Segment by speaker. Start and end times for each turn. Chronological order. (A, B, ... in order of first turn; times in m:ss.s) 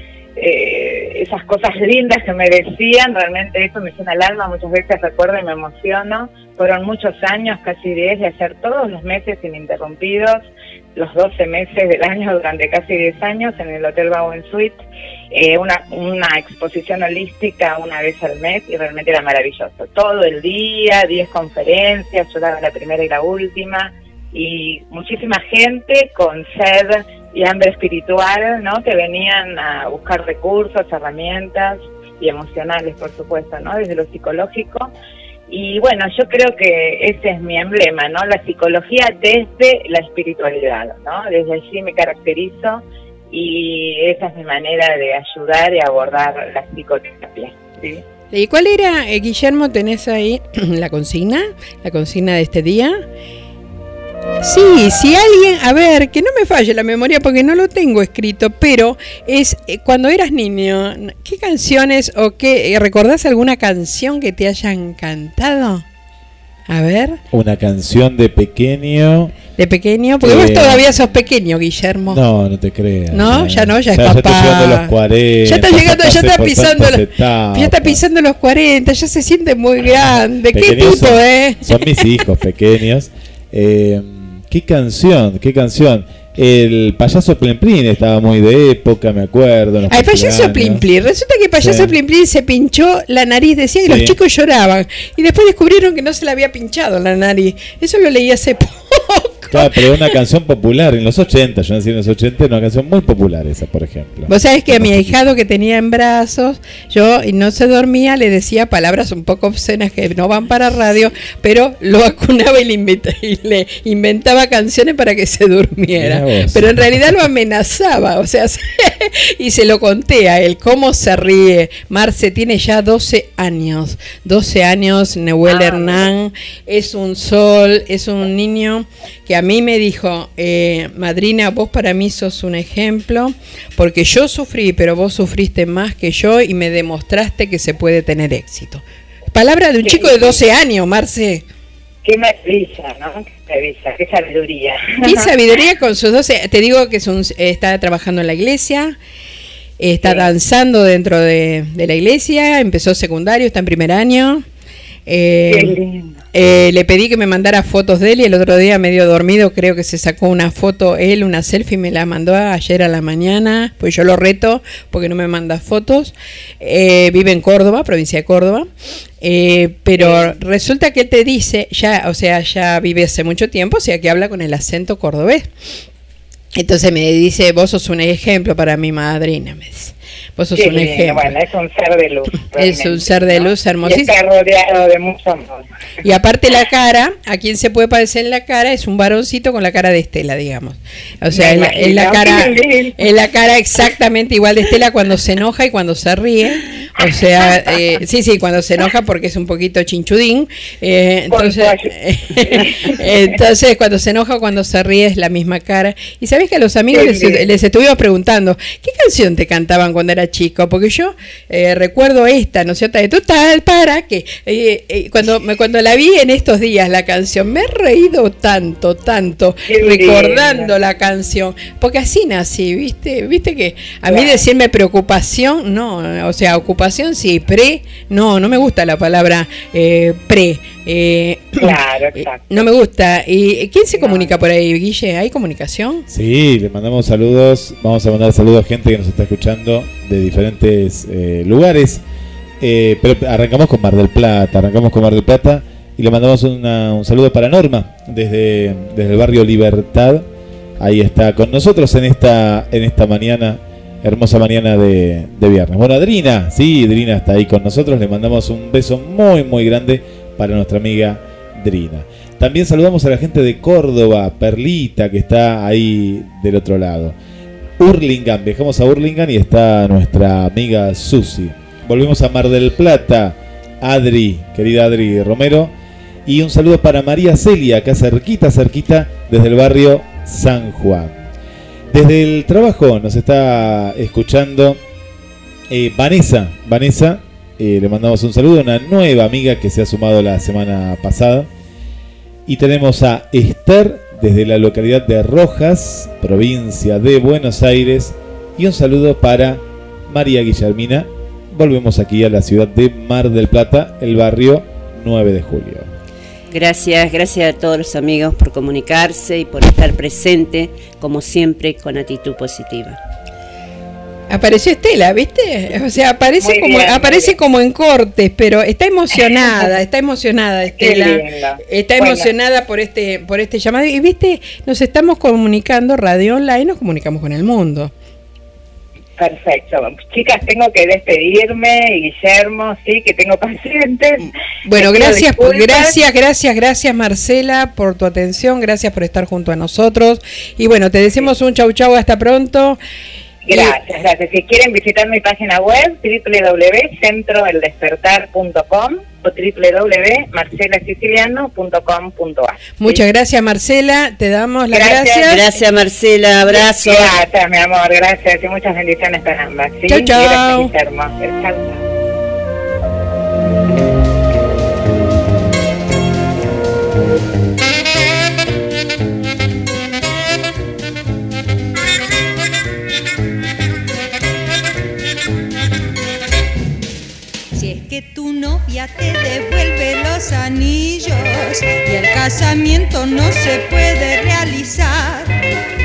0:00.4-0:14.8 A
0:15.3-0:34.9 A
0:35.5-0:48.0 A
0:48.3-0:53.0 B
0:54.4-1:05.8 B
1:06.7-1:07.2 B
1:07.3-1:09.4 C
1:09.6-1:12.2 B
1:10.2-1:10.8 C
1:12.1-1:18.0 C
1:13.1-1:14.9 B
1:15.4-1:22.0 B
1:20.5-1:30.9 C
1:29.9-1:40.1 B
1:31.6-1:31.9 C
1:33.8-1:34.2 C
1:39.5-1:44.9 C
1:44.3-2:18.8 B
1:56.0-1:57.2 C
2:05.5-2:06.0 A
2:19.3-2:21.4 B
2:19.8-2:20.4 A
2:22.0-2:25.3 A
2:25.0-2:29.0 B
2:29.8-2:34.4 B
2:35.1-2:35.8 B
2:35.5-2:36.1 A
2:36.3-2:48.7 B
2:49.2-2:55.5 B
2:50.0-2:50.3 A
2:56.6-3:01.4 B
3:00.5-3:05.6 A
3:02.5-3:04.1 B
3:06.0-3:51.8 B
3:11.3-3:13.1 A
3:17.0-3:17.8 A
3:21.3-3:23.0 A
3:26.9-3:27.5 A
3:39.7-3:40.7 A
3:44.1-3:44.4 A
3:51.6-3:52.6 A
3:52.5-3:56.1 B
3:54.0-3:54.3 A
3:56.1-4:02.0 C
4:02.6-4:10.3 C
4:10.8-4:27.2 C
4:27.8-4:35.7 C
4:36.2-4:41.2 C
4:41.9-4:44.8 C
4:45.7-4:51.5 C
4:52.5-5:05.9 C
5:06.5-5:13.0 D
5:14.3-5:27.9 B
5:16.4-5:17.4 A
5:20.8-5:22.3 A
5:29.2-5:35.9 A
5:34.6-5:42.8 B
5:43.4-5:53.0 A
5:43.5-5:43.8 B
5:52.8-5:55.4 B
5:54.7-5:55.6 A
5:55.2-5:57.2 D
5:56.5-6:01.8 A
5:59.9-6:00.7 B
6:17.5-6:25.4 E